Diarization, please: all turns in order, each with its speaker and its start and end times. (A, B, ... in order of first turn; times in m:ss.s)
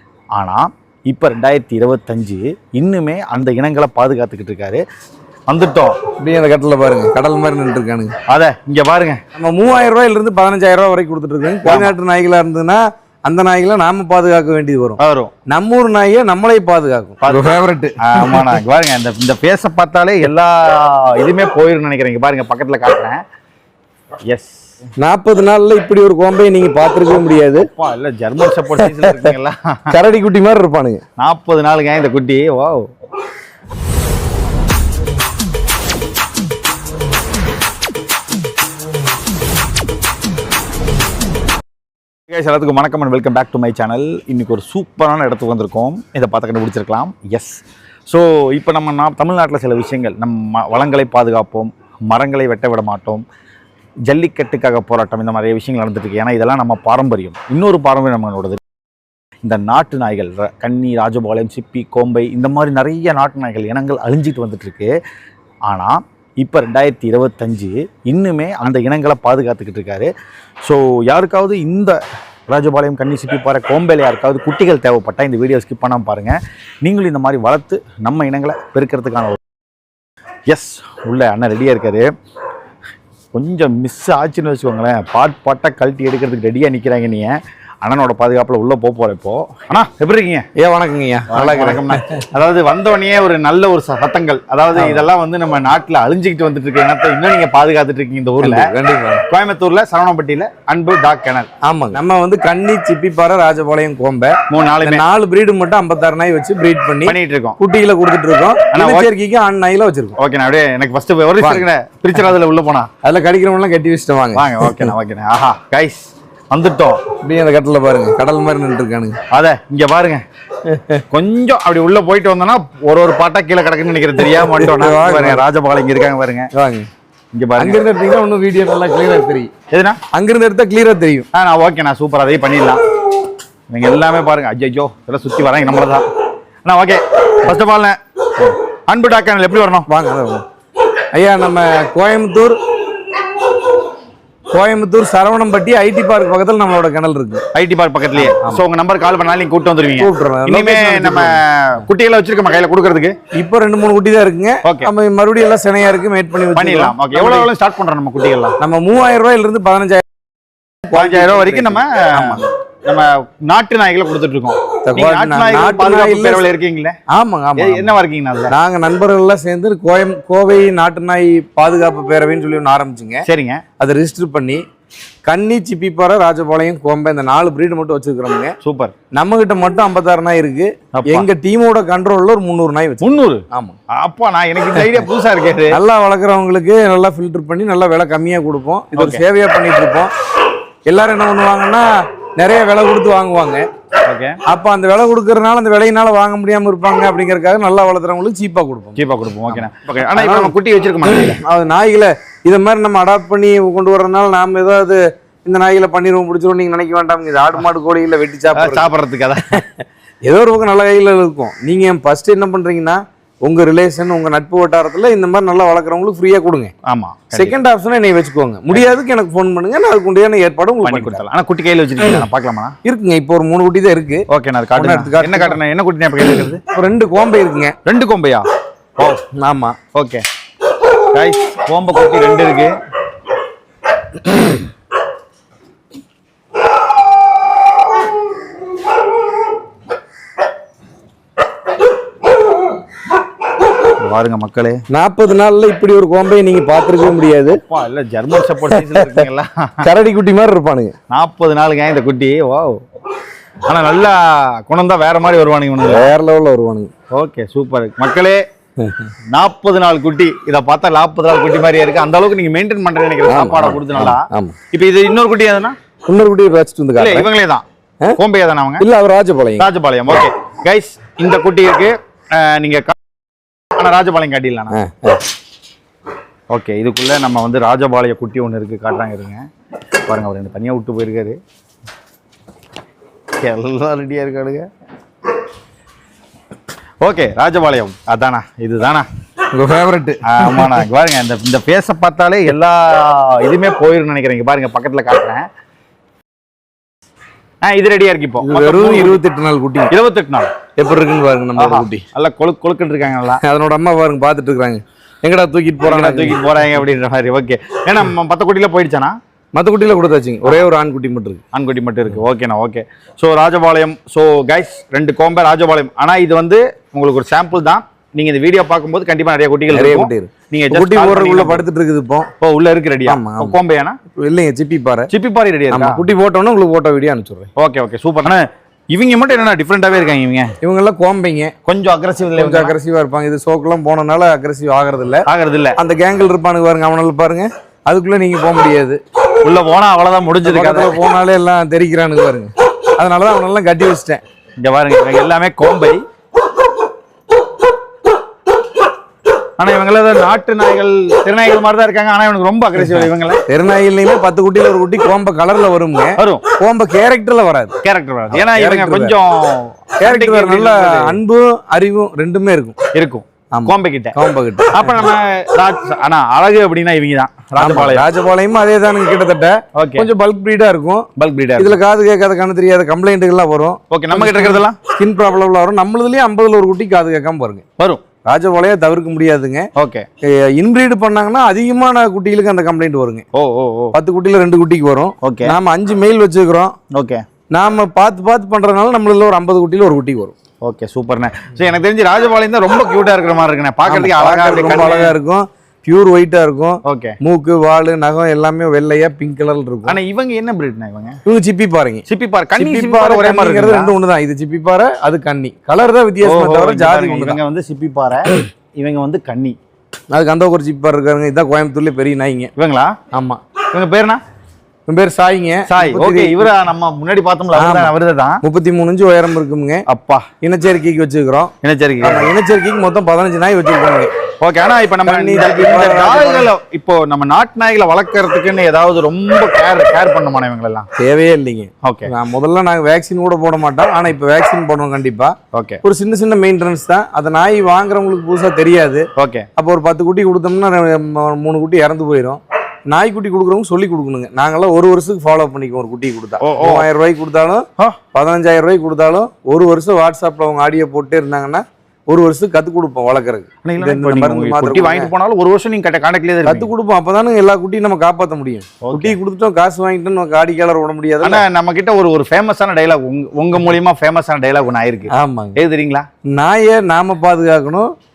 0:00.4-0:04.8 A
0:05.5-0:06.0 A
0:06.2-0:08.2 B
0:08.3-0:09.2 A
0:09.3-0:18.6 B
0:11.6-0:11.9 A
0:15.0-0:15.3 A
0:18.0-0:23.2 A
0:24.3-0:24.7 A
0:25.0-0:27.7 B
0:27.5-0:30.0 A
0:28.8-0:29.3 B
0:29.9-0:31.0 B
0:31.2-0:32.9 A
0:42.3-0:53.2 A
0:54.1-0:58.6 A
0:59.4-1:04.9 A
1:05.7-1:10.1 A
1:10.6-1:19.4 A
1:20.5-1:22.1 A
1:23.3-1:30.4 A
1:30.6-1:32.2 B
1:31.3-1:38.7 A
1:34.7-1:35.1 B
1:38.4-1:39.2 B
1:39.3-1:41.5 A
1:41.6-1:50.2 B
1:44.5-1:45.0 A
1:47.0-1:47.6 A
1:48.7-1:49.1 A
1:50.2-1:52.9 A
1:51.4-1:51.7 B
1:53.0-1:54.9 B
1:54.4-1:57.0 A
1:57.2-1:59.2 B
1:59.3-2:00.2 A
2:00.6-2:01.0 B
2:01.1-2:06.5 A
2:04.2-2:05.4 B
2:06.5-2:06.9 B
2:07.3-2:07.8 A
2:07.6-2:09.5 B
2:09.7-2:10.0 A
2:10.1-2:11.3 B
2:11.3-2:12.8 A
2:13.7-2:16.0 A
2:16.6-2:19.9 A
2:19.9-2:20.4 B
2:21.0-2:22.6 B
2:24.5-2:27.4 B
2:27.5-2:33.1 A
2:28.1-2:28.6 B
2:30.0-2:31.4 B
2:33.3-2:37.5 B
2:34.6-2:34.9 A
2:36.6-2:38.6 A
2:38.6-2:40.0 B
2:40.8-2:42.4 B
2:41.0-2:47.0 A
2:44.9-2:46.5 B
2:47.1-2:47.9 B
2:47.6-2:48.6 A
2:48.5-2:53.2 B
2:53.2-2:53.6 A
2:53.8-2:54.6 B
2:55.3-2:58.5 B
2:58.6-2:59.0 A
2:59.1-3:03.8 B
3:01.0-3:01.3 A
3:03.0-3:03.4 A
3:03.9-3:05.8 A
3:05.7-3:10.1 B
3:09.0-3:09.2 A
3:10.9-3:13.7 B
3:14.0-3:14.4 A
3:14.5-3:28.9 B
3:19.0-3:21.4 A
3:28.6-3:29.6 A
3:29.4-3:36.7 B
3:36.9-3:37.6 A
3:37.3-3:41.2 B
3:40.8-3:42.8 A
3:42.8-3:44.2 B
3:44.3-3:46.6 A
3:44.8-3:45.6 B
3:46.7-3:47.8 B
3:47.8-3:48.4 A
3:49.4-3:49.8 B
3:49.9-3:50.2 A
3:51.1-3:52.7 A
4:04.0-4:04.8 A
4:04.9-4:07.6 B
4:07.5-4:09.9 A
4:08.7-4:09.2 B
4:09.8-4:10.9 B
4:11.1-4:12.8 A
4:13.6-4:16.1 A
4:15.8-4:16.9 B
4:17.1-4:18.4 A
4:18.8-4:19.1 B
4:19.3-4:25.8 A
4:23.3-4:24.6 B
4:26.1-4:27.3 B
4:27.0-4:28.9 A
4:28.8-4:29.7 B
4:29.6-4:33.0 A
4:33.8-4:34.8 A
4:34.7-4:35.2 B
4:36.5-4:39.5 A
4:40.1-4:41.4 A
4:43.4-4:44.7 A
4:47.0-4:49.1 A
4:49.5-4:50.8 B
4:50.2-4:55.5 A
4:57.6-4:59.2 A
4:58.4-4:59.9 B
4:59.9-5:00.5 A
5:00.8-5:02.0 B
5:01.6-5:03.4 A
5:03.4-5:06.4 B
5:05.8-5:09.2 A
5:09.6-5:11.4 B
5:11.5-5:21.6 A
5:19.7-5:22.3 B
5:22.4-5:24.0 A
5:23.1-5:23.6 B
5:24.2-5:25.1 B
5:25.1-5:26.0 A
5:25.7-5:27.5 B
5:27.6-5:30.5 A
5:30.6-5:31.5 B
5:31.7-5:32.8 A
5:32.4-5:35.2 B
5:35.3-5:35.8 A
5:35.8-5:39.0 B
5:39.4-5:41.0 A
5:40.4-5:44.2 B
5:44.6-5:46.0 A
5:49.6-5:53.4 A
5:53.5-5:57.8 B
5:56.2-5:56.4 A
5:57.8-6:01.2 A
5:58.3-5:59.2 B
6:00.0-6:02.8 B
6:02.9-6:04.2 A
6:03.6-6:05.0 B
6:04.7-6:08.1 A
6:07.6-6:17.6 B
6:09.8-6:10.1 A
6:11.2-6:11.8 A
6:13.9-6:14.8 A
6:18.2-6:19.7 B
6:19.8-6:20.1 A
6:20.3-6:23.2 B
6:23.3-6:24.0 A
6:23.9-6:26.8 B
6:25.2-6:25.6 A
6:26.9-6:27.2 A
6:27.5-6:30.3 B
6:30.6-6:35.1 A
6:33.8-6:40.0 B
6:36.8-6:37.2 A
6:39.9-6:41.2 A
6:41.2-6:42.1 B
6:42.1-6:43.9 A
6:42.6-6:47.4 B
6:46.2-6:49.6 A
6:50.1-6:52.5 B
6:52.6-6:53.0 A
6:53.1-6:53.4 B
6:53.7-6:54.2 A
6:54.9-6:56.5 B
6:55.7-6:58.4 A
6:57.6-6:59.8 B
6:59.9-7:00.3 A
7:00.4-7:04.1 B
7:01.6-7:02.3 A
7:04.4-7:10.9 A
7:05.1-7:06.5 B
7:11.0-7:35.1 B
7:11.8-7:12.1 A
7:15.5-7:15.8 A
7:19.2-7:19.5 A
7:26.4-7:26.9 A
7:33.6-7:36.7 A
7:36.4-7:41.4 B
7:38.8-7:39.2 A
7:41.2-7:46.1 A
7:45.1-7:45.6 B
7:46.3-7:47.9 B